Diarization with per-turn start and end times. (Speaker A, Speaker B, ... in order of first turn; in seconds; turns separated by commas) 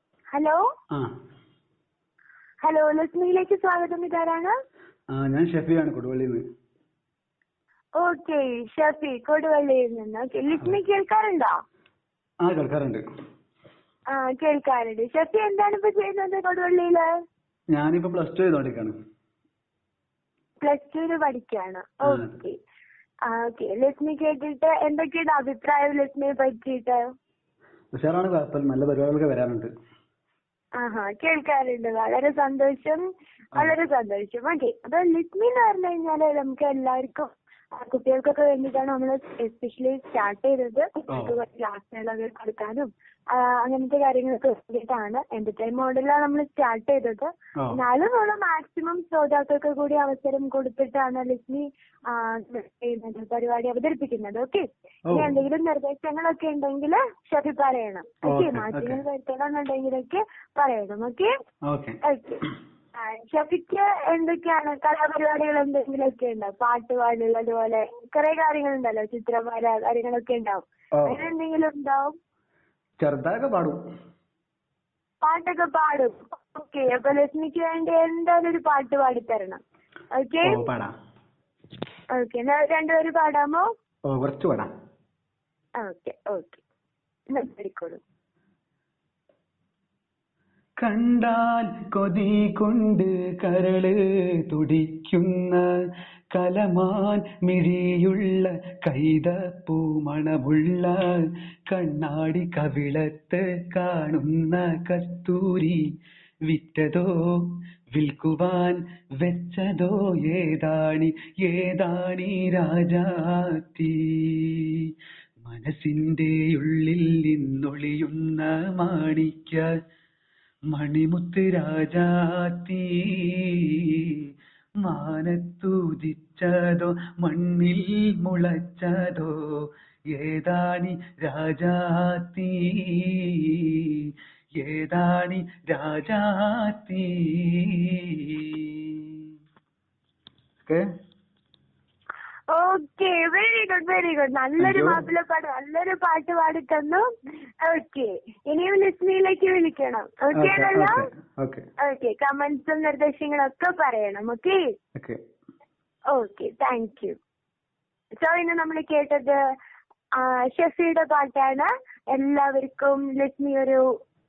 Speaker A: 0.3-0.6, Speaker A: 2.6-4.5, Speaker B: 5.1-6.4, Speaker A: 8.0-11.5, Speaker B: 12.4-13.0, Speaker A: 14.1-17.1, Speaker B: 17.7-18.9, Speaker A: 20.6-22.6, Speaker B: 22.0-22.3, Speaker A: 23.3-27.0, Speaker B: 27.9-29.7, Speaker A: 30.8-33.0, Speaker A: 33.5-61.3, Speaker B: 55.1-55.4, Speaker B: 58.3-59.0, Speaker B: 61.7-62.0, Speaker A: 62.0-62.4, Speaker A: 63.0-72.1, Speaker B: 70.9-71.2, Speaker B: 73.0-73.8, Speaker A: 75.2-79.6, Speaker A: 80.1-80.6, Speaker B: 80.4-80.9, Speaker A: 82.1-83.7, Speaker B: 84.1-84.7, Speaker A: 85.8-86.6, Speaker A: 87.3-88.0, Speaker B: 90.8-95.6, Speaker B: 96.3-105.8, Speaker B: 106.5-119.7, Speaker B: 120.7-124.3, Speaker B: 124.8-129.4, Speaker B: 130.1-139.3, Speaker A: 142.5-147.0, Speaker B: 144.6-145.0, Speaker A: 147.6-151.0, Speaker B: 150.4-151.6, Speaker A: 151.8-154.6, Speaker A: 156.1-157.2, Speaker A: 158.2-159.3, Speaker A: 160.2-163.8